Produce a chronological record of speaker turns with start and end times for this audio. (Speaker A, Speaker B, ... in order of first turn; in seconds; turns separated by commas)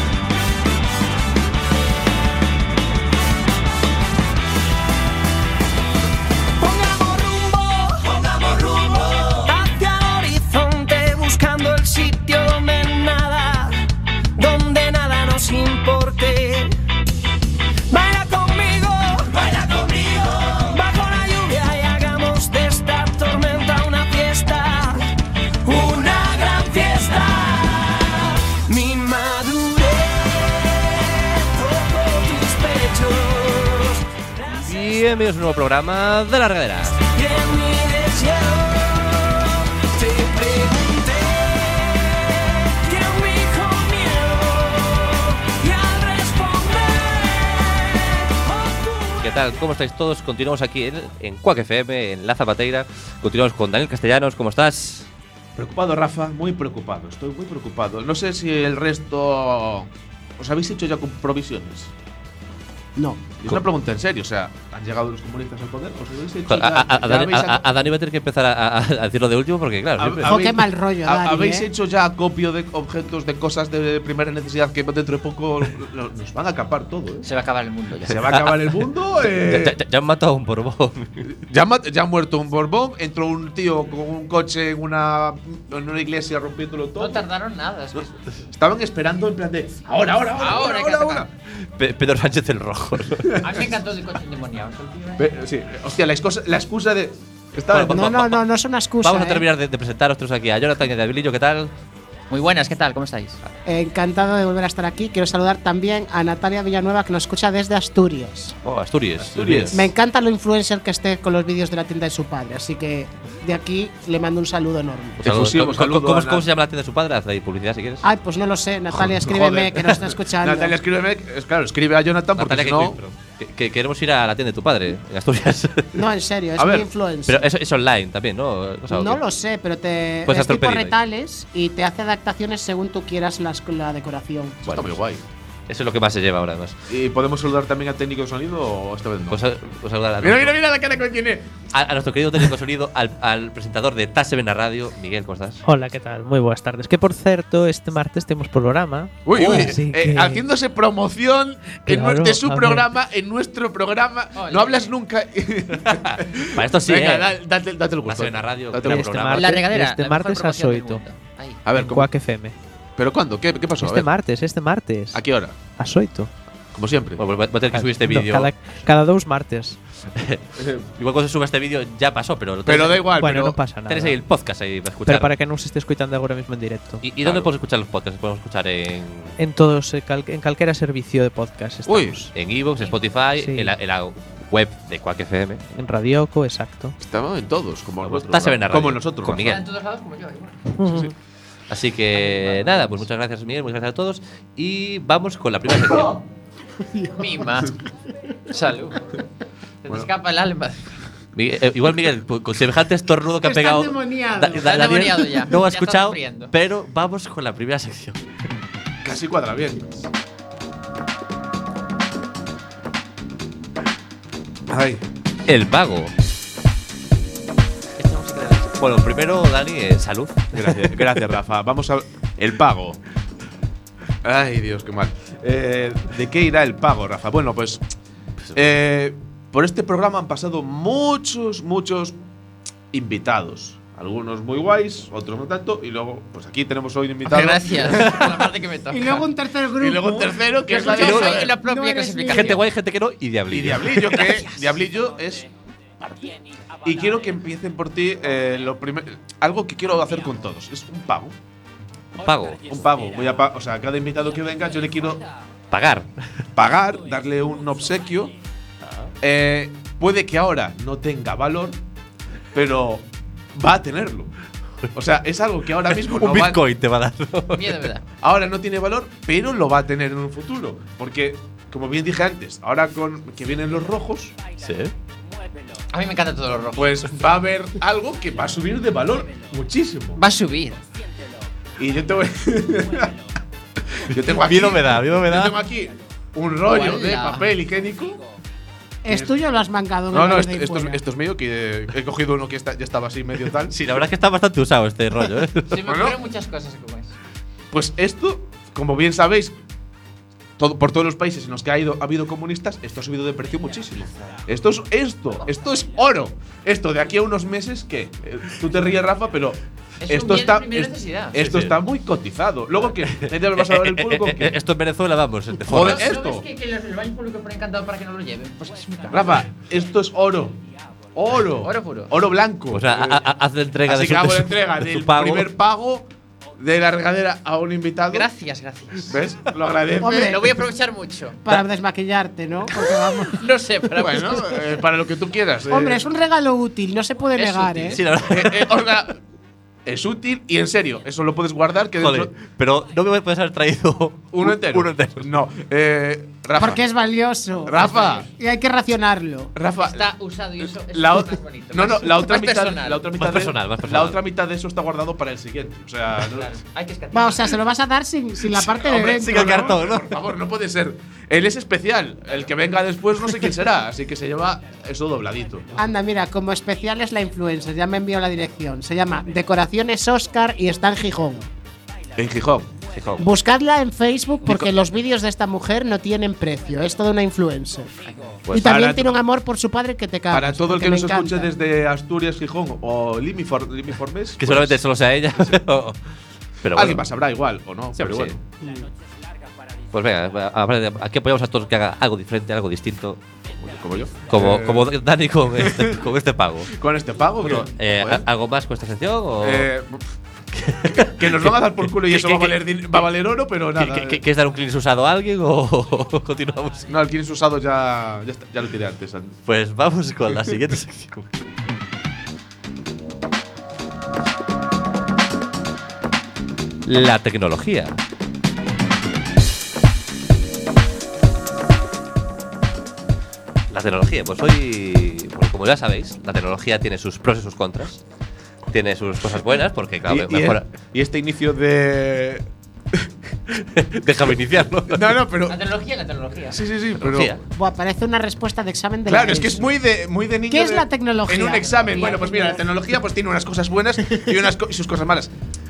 Speaker A: 6.6-16.8, Speaker A: 17.9-34.5, Speaker B: 34.5-37.0, Speaker A: 37.0-49.2, Speaker B: 49.2-55.1, Speaker C: 55.6-61.9, Speaker D: 63.0-63.2, Speaker C: 63.4-67.6, Speaker B: 66.5-70.4, Speaker C: 70.0-77.3, Speaker D: 70.2-71.7, Speaker E: 77.2-78.3, Speaker C: 78.0-79.8, Speaker B: 78.3-81.2, Speaker C: 81.2-87.3, Speaker E: 87.0-88.1, Speaker C: 88.5-91.3, Speaker E: 90.4-91.3, Speaker B: 91.5-93.4, Speaker C: 93.2-93.5, Speaker E: 93.4-95.3, Speaker C: 95.2-98.1, Speaker B: 97.7-98.4, Speaker D: 97.8-99.5, Speaker B: 99.0-101.7, Speaker E: 102.3-103.4, Speaker D: 103.7-108.5, Speaker B: 108.6-109.8, Speaker C: 109.2-109.9, Speaker D: 109.7-115.2, Speaker C: 115.2-116.5, Speaker B: 115.2-118.0, Speaker D: 118.0-120.8, Speaker C: 119.0-123.0, Speaker B: 122.4-126.0, Speaker D: 125.9-127.5, Speaker C: 126.6-126.9, Speaker B: 127.3-129.2, Speaker D: 128.9-134.7, Speaker B: 130.3-131.0, Speaker B: 134.7-135.0, Speaker C: 134.7-135.2, Speaker B: 135.7-136.8, Speaker C: 136.9-139.4, Speaker B: 139.3-140.6, Speaker C: 140.2-141.5, Speaker B: 141.7-145.6, Speaker F: 145.7-150.4, Speaker C: 149.3-159.3, Speaker F: 151.8-152.9, Speaker E: 154.3-154.9, Speaker B: 155.8-157.3, Speaker B: 158.1-159.5, Speaker F: 158.8-161.0, Speaker E: 159.3-161.6, Speaker C: 161.7-162.1, Speaker F: 161.8-162.6, Speaker C: 163.0-164.1, Speaker F: 163.8-165.2, Speaker C: 165.1-165.6, Speaker F: 165.8-166.3, Speaker C: 166.7-167.2, Speaker B: 167.2-168.5, Speaker F: 167.8-169.8, Speaker B: 170.1-173.1, Speaker C: 170.6-170.9, Speaker C: 172.7-173.6, Speaker F: 173.1-174.2, Speaker B: 173.9-175.3, Speaker F: 175.1-177.0, Speaker B: 177.0-179.4, Speaker C: 177.2-177.5, Speaker F: 179.4-182.3, Speaker C: 181.9-182.2, Speaker B: 182.3-185.6, Speaker F: 183.4-183.7, Speaker F: 185.7-186.9, Speaker C: 187.0-189.5, Speaker B: 188.0-189.6, Speaker E: 189.4-190.8, Speaker F: 190.8-191.1, Speaker C: 190.9-191.1, Speaker B: 191.7-196.2, Speaker E: 192.2-192.9, Speaker D: 196.9-197.3, Speaker E: 197.2-197.8, Speaker E: 198.5-199.2, Speaker E: 199.8-201.0, Speaker B: 201.4-208.2, Speaker D: 203.4-204.7, Speaker E: 204.6-206.5, Speaker C: 209.0-209.9, Speaker C: 214.7-215.0, Speaker B: 215.5-216.1, Speaker E: 218.0-218.6, Speaker B: 218.3-220.8, Speaker C: 220.5-223.0, Speaker C: 224.2-227.8, Speaker C: 228.5-232.2, Speaker C: 232.9-238.2, Speaker E: 237.2-239.2, Speaker D: 238.9-242.6, Speaker C: 239.8-241.5, Speaker E: 240.7-242.6, Speaker B: 241.0-241.4, Speaker B: 242.3-244.4, Speaker C: 243.5-245.5, Speaker C: 246.8-251.3, Speaker B: 252.2-252.6, Speaker C: 252.7-255.2, Speaker B: 255.7-256.1, Speaker C: 256.6-258.3, Speaker B: 258.8-259.1, Speaker C: 259.2-261.8, Speaker C: 262.5-264.3, Speaker C: 264.9-266.6, Speaker B: 265.9-267.8, Speaker E: 267.5-268.1, Speaker C: 268.2-274.3, Speaker B: 274.6-274.9, Speaker E: 275.9-277.1, Speaker C: 276.8-280.2, Speaker E: 280.2-280.8, Speaker C: 281.8-283.1, Speaker C: 284.0-288.2, Speaker B: 284.1-285.6, Speaker E: 286.7-287.6, Speaker D: 289.0-291.0, Speaker C: 290.1-293.7, Speaker B: 293.7-295.9, Speaker E: 295.7-297.1, Speaker C: 295.9-296.2, Speaker C: 297.7-299.6, Speaker C: 300.6-314.6, Speaker E: 310.0-311.4, Speaker B: 311.4-311.8, Speaker B: 313.2-316.1, Speaker C: 315.7-316.4, Speaker E: 315.8-319.4, Speaker C: 319.1-320.6, Speaker C: 321.1-323.2, Speaker E: 321.6-322.1, Speaker B: 322.7-325.5, Speaker C: 323.9-326.1, Speaker C: 326.6-328.3, Speaker E: 328.1-329.2, Speaker C: 329.1-330.4, Speaker D: 330.0-330.6, Speaker E: 330.0-331.4, Speaker D: 331.4-333.5, Speaker E: 333.4-334.7, Speaker C: 334.0-336.0, Speaker D: 335.7-338.0, Speaker B: 337.5-338.7, Speaker C: 338.2-339.2, Speaker C: 339.9-342.3, Speaker B: 342.0-345.3, Speaker C: 344.3-346.8, Speaker D: 346.6-349.5, Speaker C: 347.6-348.2, Speaker E: 347.8-348.3, Speaker C: 349.6-350.1, Speaker E: 349.8-353.1, Speaker C: 350.9-356.5, Speaker B: 353.2-354.2, Speaker E: 356.2-357.6, Speaker D: 357.1-359.8, Speaker C: 358.6-365.7, Speaker B: 359.0-360.1, Speaker D: 365.8-371.5, Speaker C: 372.2-372.7, Speaker B: 372.9-373.3, Speaker D: 373.2-378.0, Speaker E: 378.1-378.4, Speaker B: 378.4-378.8, Speaker D: 378.5-381.5, Speaker C: 378.5-379.2, Speaker C: 380.3-384.8, Speaker B: 384.4-386.0, Speaker B: 386.6-387.0, Speaker C: 386.7-388.4, Speaker B: 388.0-388.4, Speaker D: 388.6-388.9, Speaker B: 389.9-393.2, Speaker C: 393.6-394.9, Speaker B: 394.2-396.7, Speaker C: 395.6-395.9, Speaker C: 396.7-398.2, Speaker B: 397.4-399.7, Speaker C: 399.4-400.1, Speaker B: 400.5-402.6, Speaker C: 401.0-404.2, Speaker B: 403.8-406.8, Speaker C: 406.9-409.4, Speaker B: 409.5-411.3, Speaker B: 416.9-418.0, Speaker B: 423.7-428.0, Speaker B: 428.7-430.6, Speaker C: 430.1-433.1, Speaker B: 433.5-435.2, Speaker C: 434.9-435.6, Speaker E: 435.5-436.6, Speaker C: 436.5-437.4, Speaker B: 436.9-437.4, Speaker D: 437.5-439.7, Speaker C: 439.1-445.3, Speaker D: 440.5-442.6, Speaker E: 441.6-442.5